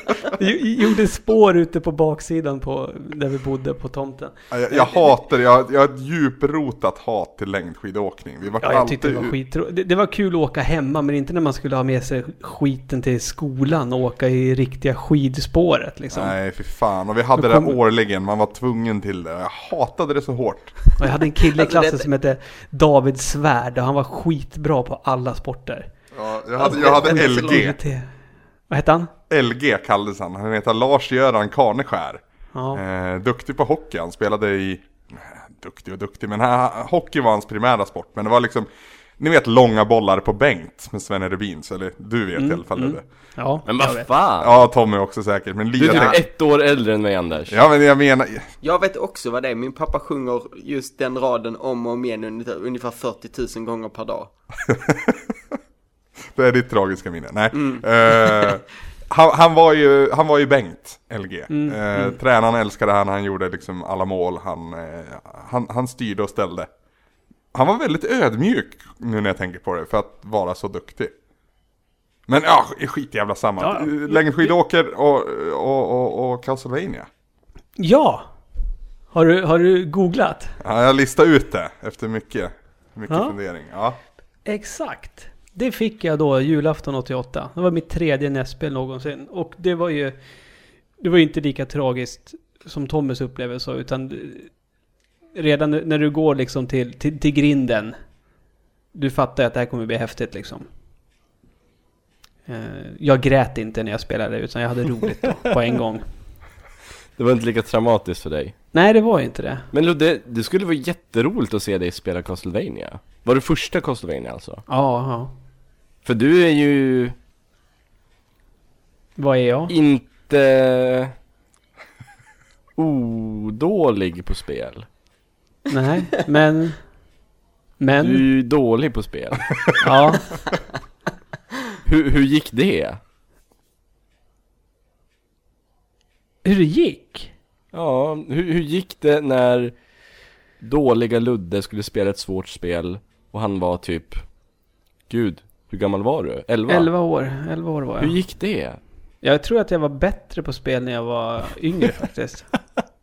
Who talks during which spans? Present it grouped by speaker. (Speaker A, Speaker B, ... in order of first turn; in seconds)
Speaker A: 0.4-5.1, 8.6-16.4, 17.4-17.8, 21.0-25.9, 26.6-28.1, 28.7-29.1, 32.5-32.8, 42.4-44.1, 61.5-62.1, 73.6-74.5, 77.8-78.3, 79.1-80.6, 83.1-83.3, 84.5-90.2, 91.0-94.5, 95.3-98.0, 99.0-100.7, 102.5-106.1, 108.7-109.7, 114.7-115.3, 119.2-119.7, 125.7-126.9, 127.8-128.2, 129.8-130.2, 136.4-137.3, 146.7-148.2, 149.2-152.5
Speaker B: 4.5-9.4, 16.1-20.8, 26.1-27.8, 29.3-32.2, 32.7-43.0, 44.4-46.2, 47.5-48.5, 54.7-55.3, 56.3-66.7, 67.5-71.1, 72.3-77.1, 80.6-84.0
Speaker C: 21.4-22.1, 26.6-27.7, 45.9-46.2, 48.6-54.3, 57.5-58.6
Speaker D: 43.7-44.6, 45.8-47.6, 107.2-108.5, 109.7-114.6, 116.0-117.2, 119.7-121.1, 122.8-124.9, 128.0-129.8, 131.9-133.0, 137.7-139.8, 140.6-144.2, 145.1-146.9, 148.0-148.8